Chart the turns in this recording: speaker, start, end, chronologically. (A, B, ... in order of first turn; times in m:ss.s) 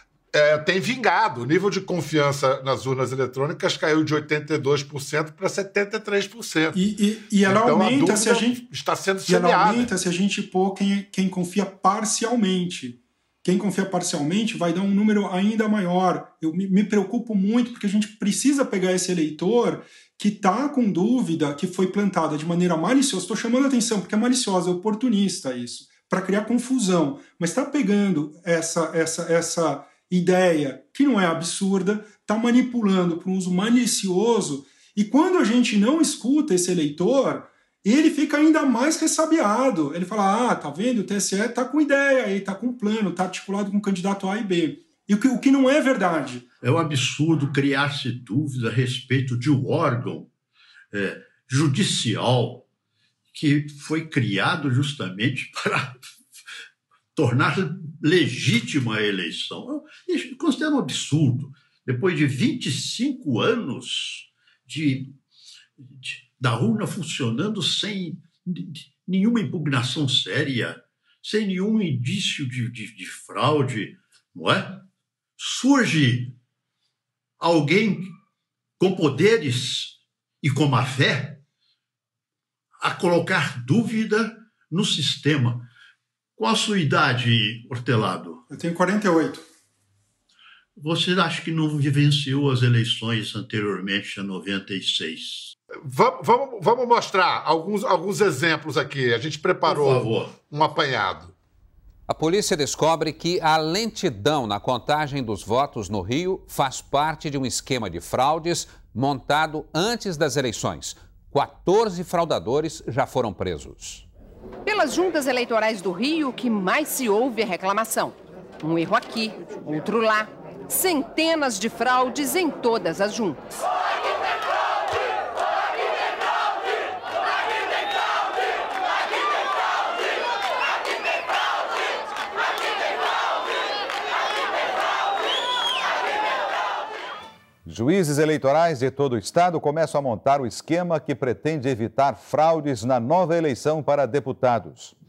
0:00.3-0:06.8 A
0:06.7-0:08.6 B
0:07.4-0:09.9 A
0:09.3-0:46.4 B
0:46.6-0:50.3 C
0:50.9-0:52.7 C
0:53.3-0:56.0 C
0:57.2-1:05.1 C
1:06.0-1:14.9 C
1:15.4-1:16.4 C
1:17.4-1:18.1 C
1:18.8-1:21.4 C
1:22.8-1:25.7 C
1:26.4-1:28.4 C
1:28.5-1:29.5 B
1:30.8-1:35.6 C
1:35.8-1:41.4 A
1:39.6-1:40.4 C
1:42.1-1:54.1 D
1:54.7-2:03.5 E
2:17.6-2:25.0 F